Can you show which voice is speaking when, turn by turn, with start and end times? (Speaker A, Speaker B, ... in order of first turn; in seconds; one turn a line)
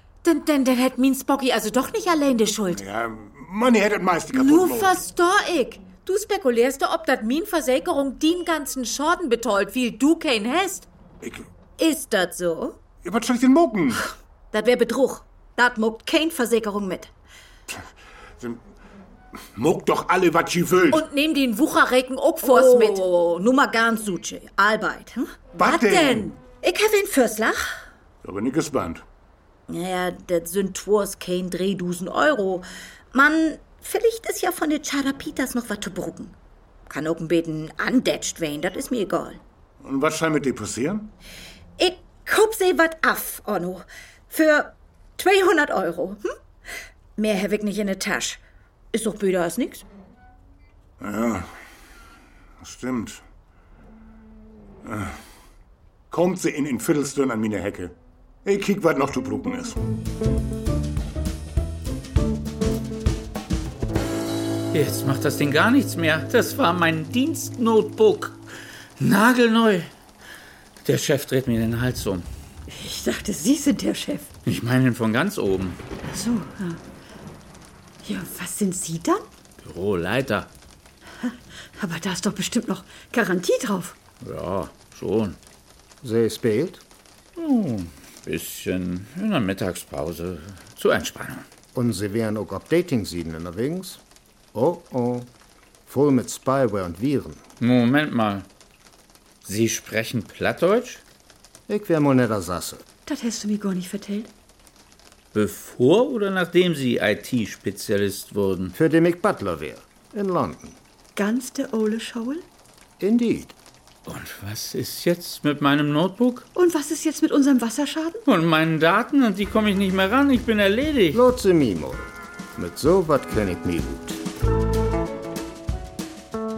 Speaker A: 0.2-2.8
Speaker B: 2.7-5.0
Speaker A: 4.3-10.9
Speaker B: 11.2-11.5
Speaker C: 11.8-12.8
Speaker B: 13.0-14.0
Speaker C: 14.5-17.1
Speaker B: 19.6-21.0
Speaker A: 20.9-23.0
Speaker C: 22.4-25.4
Speaker B: 25.6-26.3
Speaker A: 25.6-26.3
Speaker C: 26.6-27.8
Speaker B: 28.2-29.0
Speaker C: 29.7-36.3
Speaker C: 36.9-39.4
Speaker B: 39.8-41.1
Speaker C: 41.8-46.3
Speaker C: 47.2-48.4
Speaker C: 48.9-49.9
Speaker B: 51.0-51.5
Speaker B: 52.6-53.2
Speaker B: 54.8-55.2
Speaker B: 56.1-59.8
Speaker D: 64.7-68.4
Speaker D: 69.0-69.9
Speaker D: 70.8-72.2
Speaker E: 72.7-74.3
Speaker D: 74.5-75.8
Speaker E: 76.0-76.8
Speaker E: 78.0-79.3
Speaker D: 79.6-80.5
Speaker E: 81.2-84.0
Speaker D: 84.2-85.4
Speaker F: 86.0-86.8
Speaker D: 87.4-91.4
Speaker F: 91.7-94.0
Speaker F: 94.5-95.3
Speaker F: 95.9-97.4
Speaker D: 97.6-98.5
Speaker D: 99.4-101.0
Speaker F: 101.7-102.8
Speaker E: 103.0-104.3
Speaker D: 105.3-108.7
Speaker F: 108.7-110.8
Speaker E: 111.2-112.4
Speaker F: 113.0-113.5
Speaker D: 114.0-116.5
Speaker E: 116.5-118.2
Speaker D: 118.3-121.2
Speaker F: 121.1-124.2